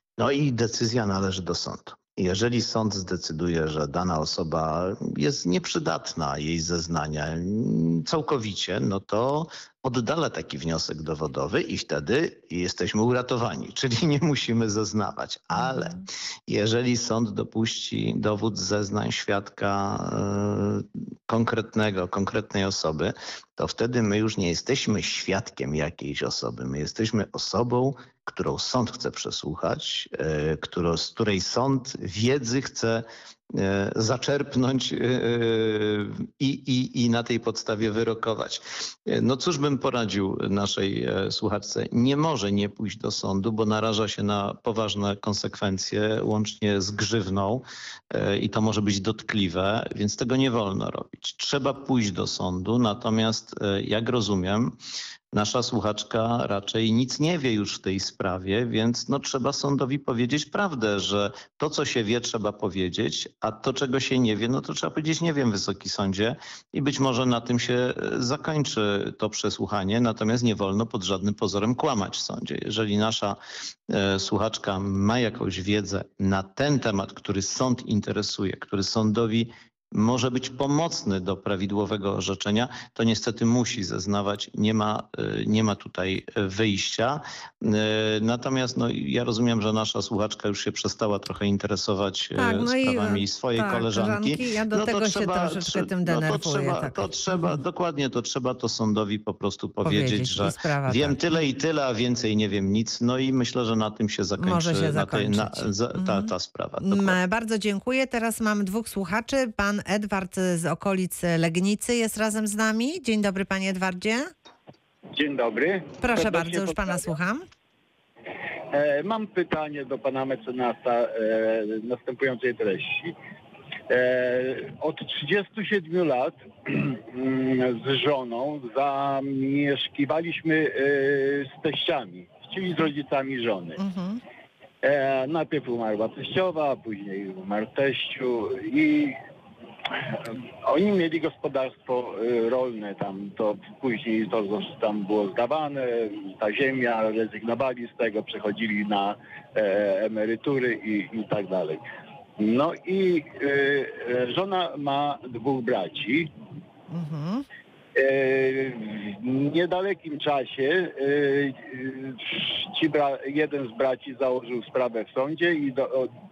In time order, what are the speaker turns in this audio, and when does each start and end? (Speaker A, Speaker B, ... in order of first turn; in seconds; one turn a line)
Speaker A: 0.2-54.8
Speaker B: 15.6-16.1
Speaker A: 55.3-107.2
Speaker B: 92.3-97.6
Speaker B: 99.8-101.2
Speaker B: 104.4-106.3
Speaker B: 106.8-114.3
Speaker C: 115.1-117.0
Speaker B: 116.0-117.5
Speaker C: 118.7-123.1
Speaker C: 123.9-133.8
Speaker B: 133.8-134.2
Speaker C: 134.8-139.2
Speaker C: 140.6-151.8
Speaker C: 152.4-156.3
Speaker B: 156.9-157.4
Speaker C: 157.9-166.1